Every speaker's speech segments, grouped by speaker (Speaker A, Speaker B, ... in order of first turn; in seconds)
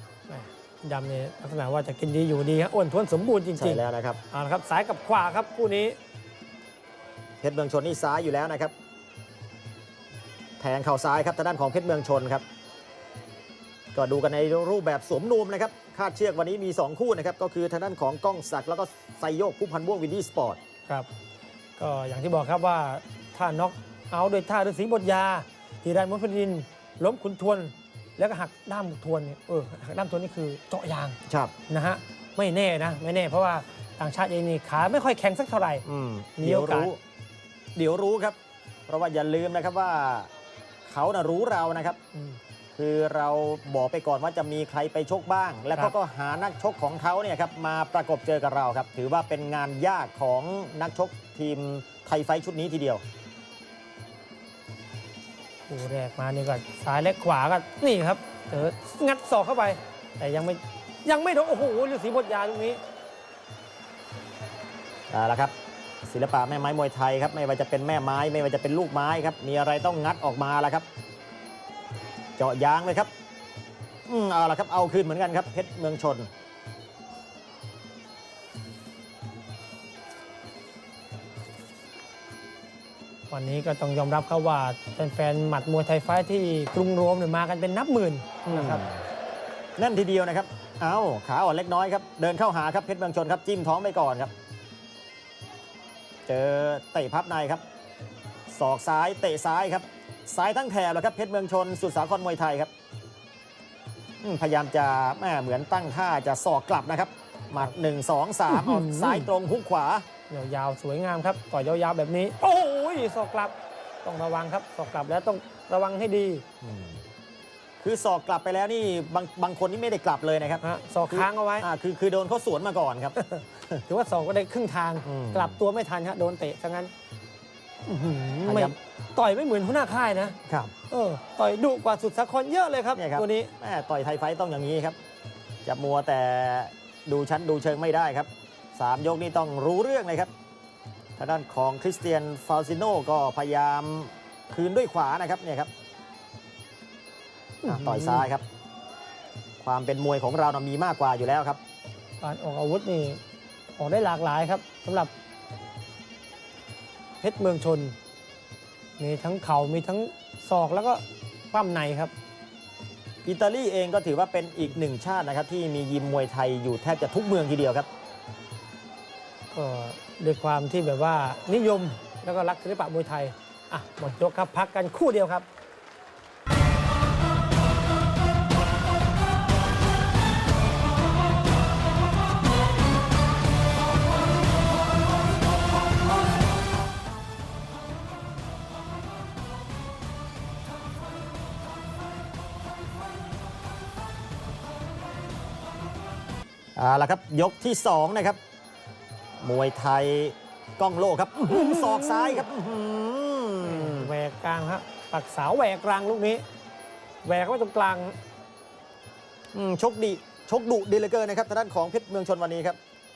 Speaker A: 0.3-6.0, 21.8-31.2, 31.7-35.8, 36.4-36.9, 42.1-42.4, 55.7-62.8, 83.3-88.8, 108.5-109.3, 110.3-116.4, 120.6-121.7, 123.2-126.9, 127.9-130.4, 130.9-133.5, 147.6-148.3, 152.2-153.2, 153.8-155.1, 157.2-158.0, 159.0-162.1, 169.5-175.5, 201.5-202.5, 203.6-206.4, 207.2-208.2
Speaker B: 3.6-4.2, 7.4-8.7, 10.6-12.4, 13.9-20.6, 31.3-31.5, 35.8-37.0, 37.8-38.4, 38.9-40.3, 40.9-42.0, 42.8-53.0, 65.1-65.5, 66.0-70.9, 72.4-73.1, 74.1-76.3, 88.4-89.0, 89.8-94.3, 96.3-97.6, 98.5-102.7, 104.2-110.0, 116.6-117.0, 117.8-123.2, 125.0-125.6, 128.4-128.8, 130.5-130.7, 132.9-135.0, 135.7-140.3, 141.2-145.7, 147.6-148.4, 149.6-151.6, 163.2-167.9, 196.8-198.4, 199.4-204.1, 209.5-212.8